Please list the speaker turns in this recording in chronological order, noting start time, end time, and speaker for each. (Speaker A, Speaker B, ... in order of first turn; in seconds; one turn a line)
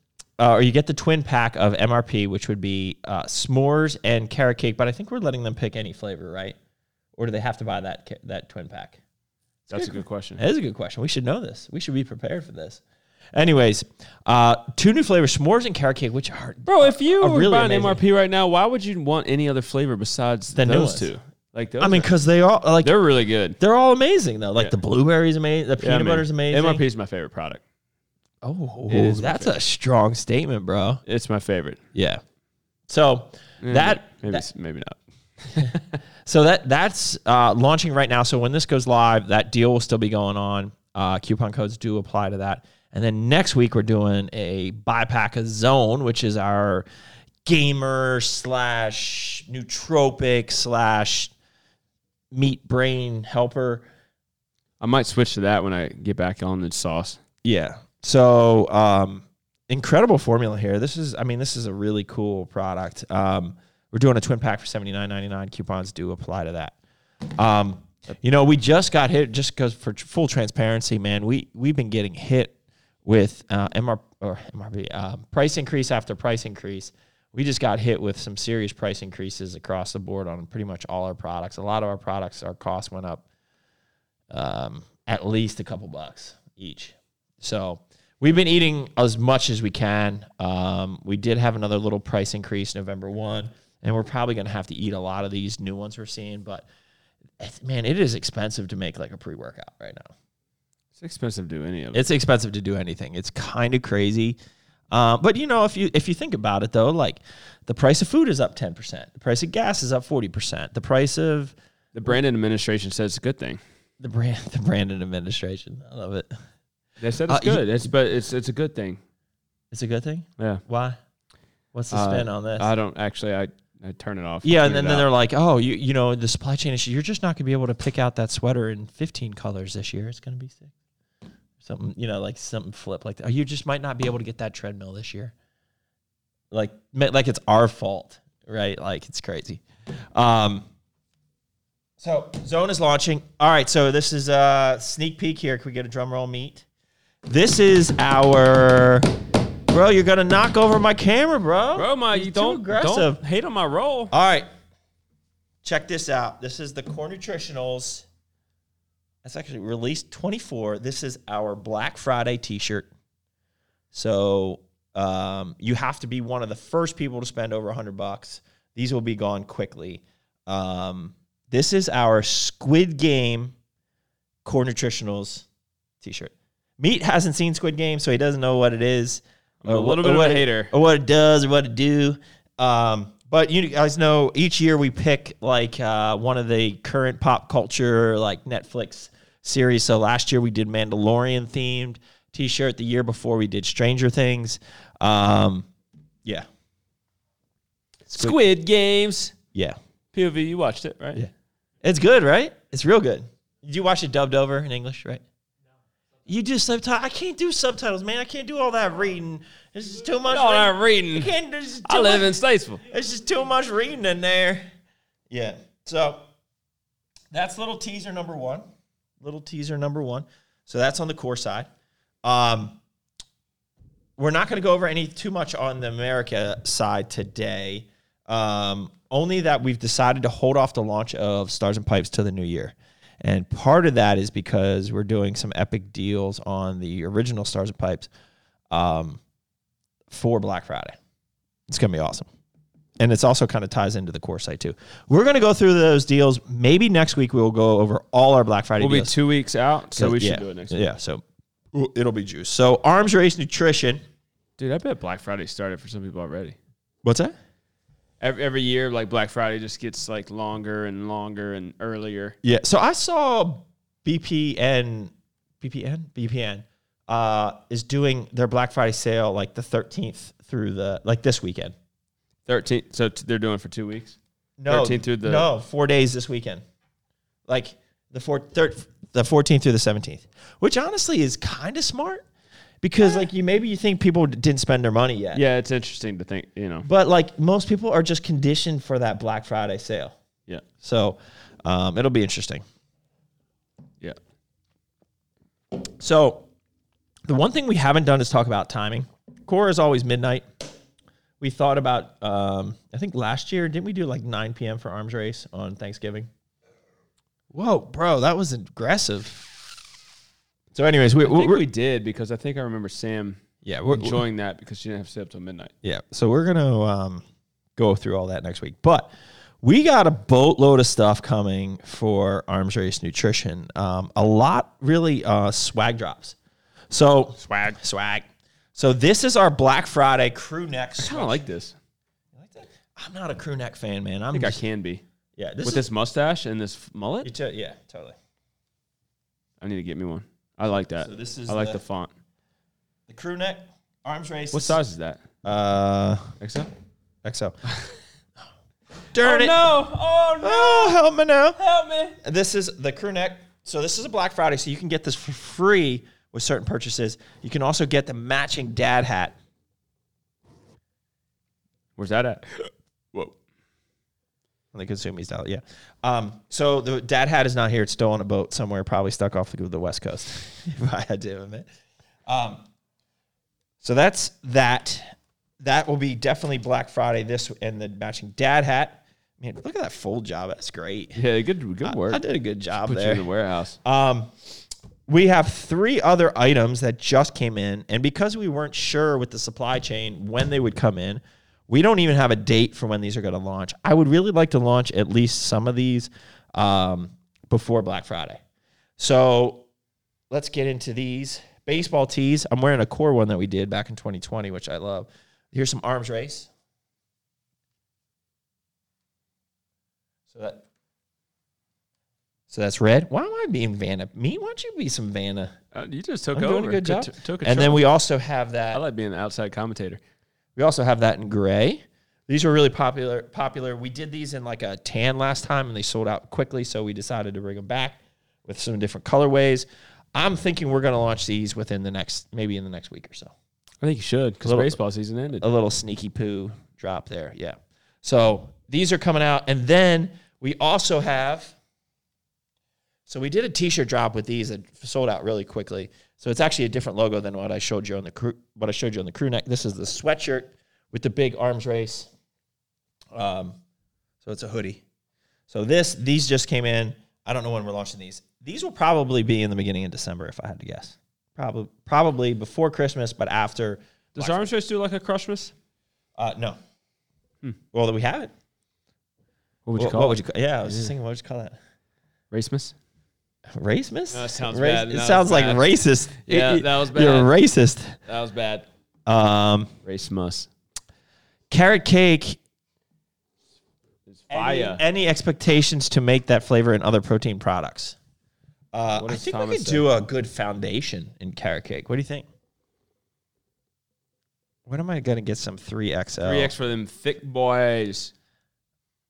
Speaker A: 0.4-6.6
Speaker A: 7.2-9.0
Speaker A: 9.7-12.8
Speaker B: 9.7-10.4
Speaker A: 13.3-18.0
Speaker B: 16.6-22.1
Speaker A: 20.6-21.1
Speaker A: 21.8-22.9
Speaker B: 22.8-23.6
Speaker A: 23.6-26.8
Speaker B: 25.8-27.6
Speaker A: 28.4-31.0
Speaker B: 28.9-29.6
Speaker B: 31.1-31.8
Speaker A: 31.9-32.2
Speaker A: 32.9-34.5
Speaker B: 33.6-36.0
Speaker A: 36.2-46.9
Speaker A: 47.5-51.3
Speaker A: 52.3-53.9
Speaker B: 54.8-57.2
Speaker A: 57.4-66.8
Speaker A: 67.3-72.5
Speaker A: 73.0-83.2
Speaker A: 84.3-96.7
Speaker A: 97.4-100.1
Speaker B: 101.0-102.1
Speaker A: 101.9-104.4
Speaker A: 104.9-111.5
Speaker B: 111.9-113.6
Speaker A: 114.0-116.3
Speaker B: 117.0-119.0
Speaker A: 117.3-117.8
Speaker A: 119.7-121.0
Speaker B: 120.4-120.6
Speaker A: 121.7-122.7
Speaker B: 121.9-125.1
Speaker A: 124.4-130.7
Speaker A: 131.6-135.3
Speaker A: 136.5-139.6
Speaker A: 140.2-140.7
Speaker A: 142.0-146.7
Speaker A: 147.2-149.1
Speaker A: 149.7-153.2
Speaker B: 151.8-154.1
Speaker A: 154.1-154.5
Speaker A: 155.6-158.1
Speaker A: 159.2-162.9
Speaker A: 163.9-173.6
Speaker A: 174.4-175.5
Speaker A: 176.0-195.7
Speaker B: 179.6-180.7
Speaker B: 198.1-199.3
Speaker B: 200.1-201.2
Speaker A: 201.8-205.2
Speaker A: 206.3-212.3
Speaker B: 210.3-211.3
Speaker B: 211.8-212.8
Speaker A: 212.9-214.6
Speaker A: 215.3-216.2
Speaker A: 217.3-218.7
Speaker A: 219.2-221.7
Speaker A: 222.2-222.8
Speaker A: 224.2-238.1
Speaker A: 238.7-239.2
Speaker A: 240.1-240.9
Speaker A: 241.7-242.3
Speaker A: 243.0-249.2
Speaker B: 248.8-250.8
Speaker A: 249.9-251.2
Speaker A: 251.7-254.0
Speaker B: 254.6-256.6
Speaker A: 257.0-257.4
Speaker B: 258.2-262.4
Speaker A: 262.4-271.7
Speaker B: 272.5-274.2
Speaker A: 274.6-276.6
Speaker B: 274.7-275.5
Speaker A: 277.5-282.2
Speaker A: 282.8-285.4
Speaker B: 285.3-286.9
Speaker A: 286.8-290.1
Speaker A: 290.8-292.6
Speaker A: 296.0-296.5
Speaker A: 297.3-300.4
Speaker A: 301.4-306.3
Speaker A: 307.5-309.8
Speaker A: 310.7-311.6
Speaker B: 311.2-313.4
Speaker A: 313.6-314.2
Speaker B: 313.9-315.7
Speaker A: 315.8-317.2
Speaker A: 317.8-319.1
Speaker A: 319.6-326.4
Speaker A: 326.9-331.5
Speaker B: 327.4-327.8
Speaker B: 331.0-331.8
Speaker A: 332.4-334.6
Speaker B: 334.3-335.0
Speaker A: 335.4-335.9
Speaker B: 335.6-337.3
Speaker A: 337.2-338.1
Speaker B: 339.6-342.1
Speaker A: 341.0-341.8
Speaker A: 343.1-344.8
Speaker B: 344.5-345.2
Speaker A: 345.4-346.4
Speaker B: 346.4-346.7
Speaker A: 347.2-347.6
Speaker A: 349.1-349.7
Speaker B: 349.2-351.0
Speaker A: 350.4-351.6
Speaker B: 351.6-352.2
Speaker A: 352.2-359.4
Speaker B: 362.0-363.4
Speaker A: 364.7-371.7
Speaker A: 372.3-372.6
Speaker A: 373.8-381.2
Speaker B: 381.2-382.2
Speaker A: 381.8-383.3
Speaker B: 382.8-383.8
Speaker A: 383.8-384.3
Speaker A: 385.1-398.4
Speaker A: 399.0-399.7
Speaker A: 400.3-406.5
Speaker A: 410.3-410.6
Speaker A: 412.5-415.6
Speaker B: 415.7-417.8
Speaker A: 416.3-418.8
Speaker B: 418.7-420.0
Speaker A: 420.6-433.3
Speaker B: 433.8-435.4
Speaker A: 434.4-434.8
Speaker A: 435.4-441.6
Speaker A: 443.1-452.1
Speaker A: 453.1-453.6
Speaker A: 454.2-454.8
Speaker A: 455.5-464.5
Speaker B: 464.2-465.5
Speaker A: 466.2-466.6
Speaker A: 467.7-468.3
Speaker B: 469.7-470.9
Speaker A: 469.8-471.6
Speaker B: 472.3-472.8
Speaker A: 473.5-478.0
Speaker B: 474.1-477.3
Speaker B: 478.1-478.7
Speaker A: 479.1-479.7
Speaker B: 479.8-480.5
Speaker A: 481.5-482.4
Speaker B: 484.1-484.8
Speaker A: 484.3-488.0
Speaker A: 488.7-492.3
Speaker B: 489.0-489.9
Speaker A: 494.7-496.5
Speaker B: 496.2-498.1